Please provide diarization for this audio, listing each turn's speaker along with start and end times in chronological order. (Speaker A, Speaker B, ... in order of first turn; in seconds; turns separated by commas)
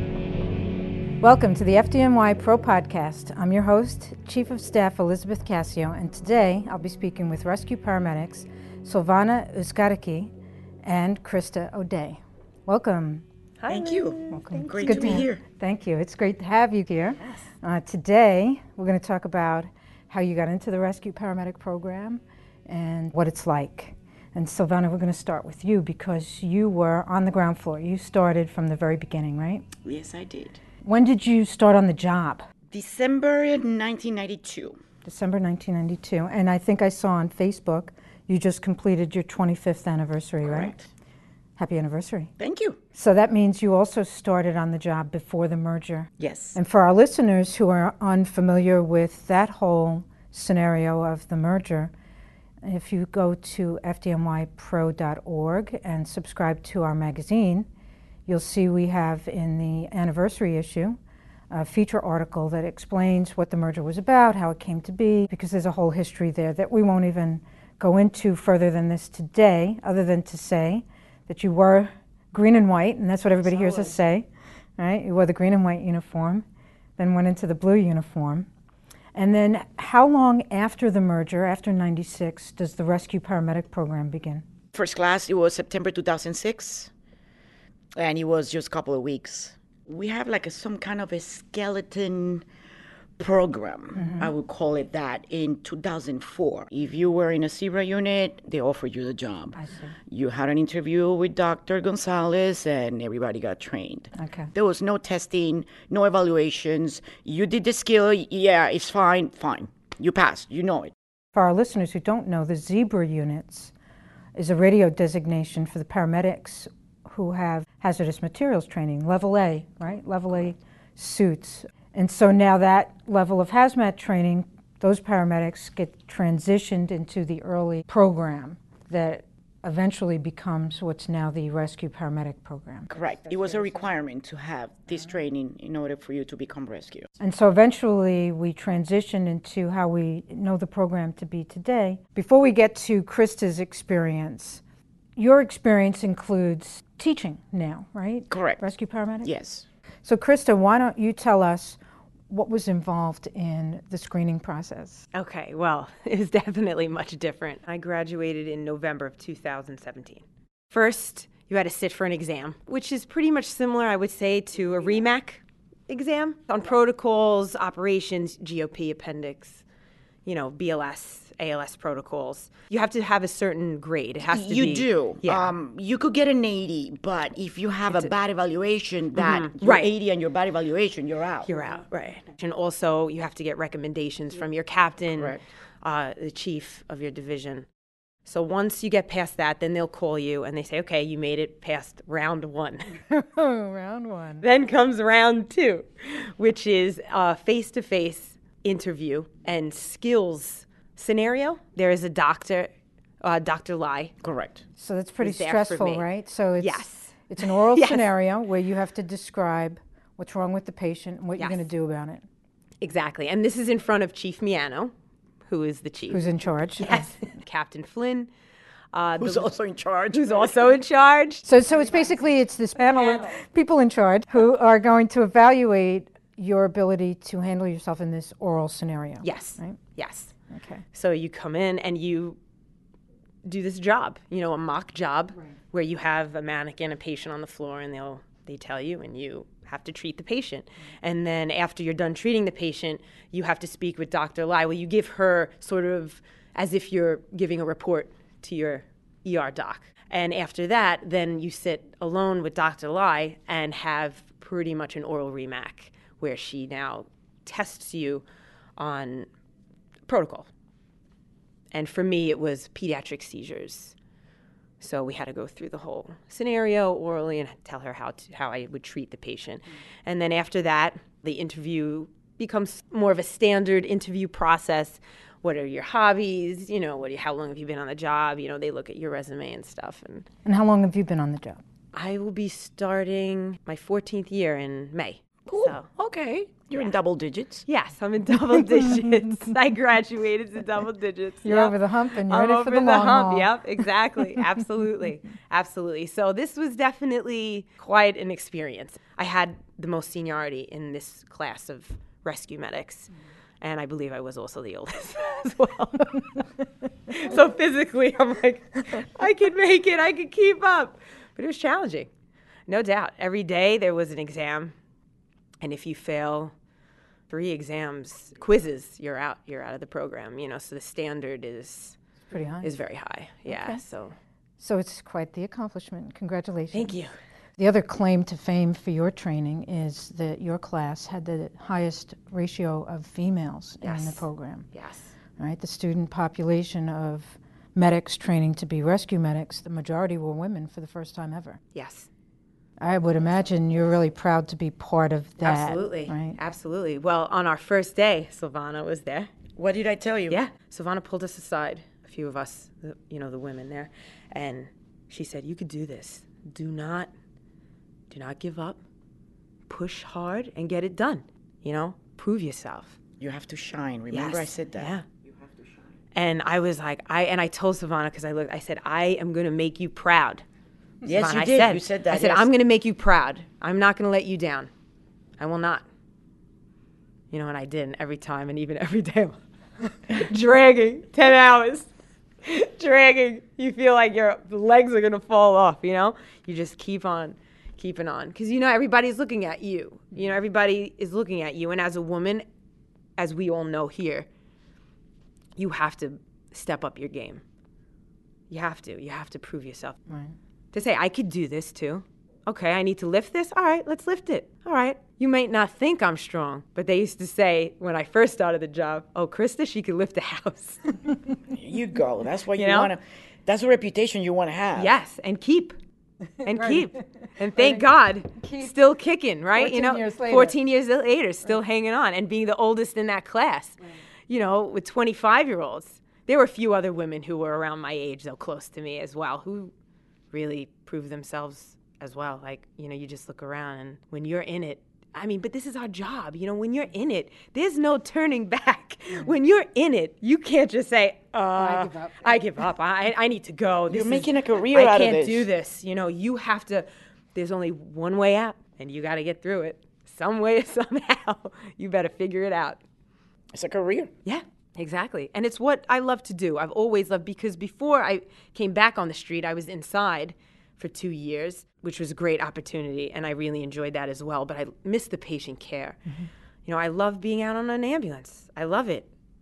Speaker A: 1.2-10.3, Speaker A: 10.8-13.2, Speaker B: 13.6-15.3, Speaker C: 13.7-15.4, Speaker A: 14.3-29.7, Speaker C: 29.8-30.6, Speaker A: 30.8-32.4, Speaker C: 32.7-34.8, Speaker A: 35.0-40.7, Speaker C: 40.4-40.8, Speaker A: 41.6-42.3, Speaker C: 42.4-42.8, Speaker A: 42.9-51.9, Speaker C: 46.2-46.6, Speaker A: 52.6-57.7, Speaker A: 58.3-61.0, Speaker A: 61.5-74.2, Speaker B: 73.5-74.0, Speaker A: 74.8-76.4, Speaker A: 77.0-78.5, Speaker A: 79.1-84.4, Speaker C: 84.7-86.9, Speaker C: 88.0-92.4, Speaker C: 93.2-110.9, Speaker A: 94.0-94.3, Speaker A: 99.5-100.0, Speaker A: 104.2-104.5, Speaker A: 111.3-113.7, Speaker A: 114.3-132.9, Speaker C: 132.9-137.1, Speaker A: 137.2-144.6, Speaker A: 145.2-149.3, Speaker C: 148.3-148.7, Speaker C: 149.2-149.7, Speaker A: 150.0-151.8, Speaker A: 152.3-155.1, Speaker B: 155.1-169.6, Speaker B: 170.2-175.5, Speaker C: 174.3-181.5, Speaker B: 179.2-179.9, Speaker B: 181.4-187.7, Speaker C: 185.1-185.4, Speaker B: 188.2-192.9, Speaker A: 193.1-194.4, Speaker B: 194.4-204.1, Speaker C: 204.2-204.6, Speaker A: 204.8-212.2, Speaker B: 205.2-206.0, Speaker B: 206.6-208.0, Speaker B: 211.4-211.6, Speaker B: 212.8-214.9, Speaker B: 215.5-216.2, Speaker A: 216.1-217.1, Speaker B: 216.8-218.3, Speaker B: 218.9-219.5, Speaker C: 219.2-220.5, Speaker B: 220.1-221.5, Speaker A: 221.4-229.8, Speaker B: 223.0-223.3, Speaker B: 229.2-230.3, Speaker A: 230.5-230.8, Speaker B: 230.9-232.4, Speaker B: 233.4-258.2, Speaker B: 258.8-259.3, Speaker B: 260.1-260.5, Speaker B: 261.7-263.9, Speaker B: 264.8-280.2, Speaker A: 280.4-281.6, Speaker B: 281.9-285.9, Speaker C: 285.5-287.6, Speaker B: 287.6-303.1, Speaker A: 288.7-289.1, Speaker A: 291.4-293.5, Speaker B: 303.6-306.4, Speaker B: 307.1-312.1, Speaker B: 312.7-314.7, Speaker B: 315.6-316.5, Speaker B: 317.3-322.0, Speaker A: 322.3-322.7, Speaker B: 322.6-324.1, Speaker A: 323.5-323.8, Speaker A: 324.6-327.0, Speaker B: 326.7-327.1, Speaker A: 327.6-334.7, Speaker B: 333.8-335.1, Speaker A: 335.4-341.6, Speaker B: 341.7-342.1, Speaker A: 342.8-346.4, Speaker B: 345.4-349.3, Speaker C: 349.6-350.4, Speaker B: 350.3-357.1, Speaker B: 358.1-358.8, Speaker B: 359.7-362.9, Speaker C: 363.2-365.6, Speaker B: 364.1-365.0, Speaker B: 366.1-370.4, Speaker C: 371.0-372.5, Speaker B: 371.1-374.7, Speaker B: 375.4-375.8, Speaker B: 377.3-379.4, Speaker B: 380.1-381.9, Speaker B: 382.4-392.4, Speaker B: 393.2-394.3, Speaker B: 395.6-397.4, Speaker B: 398.5-400.0, Speaker B: 400.7-411.0, Speaker C: 411.5-414.9, Speaker B: 412.5-412.9, Speaker B: 414.7-415.8, Speaker A: 416.4-417.0, Speaker B: 416.4-429.7, Speaker A: 417.5-418.7, Speaker A: 419.6-420.5, Speaker B: 430.3-452.8, Speaker A: 441.6-442.4, Speaker C: 443.9-445.5, Speaker C: 453.5-454.1, Speaker B: 454.2-466.0, Speaker B: 466.6-469.1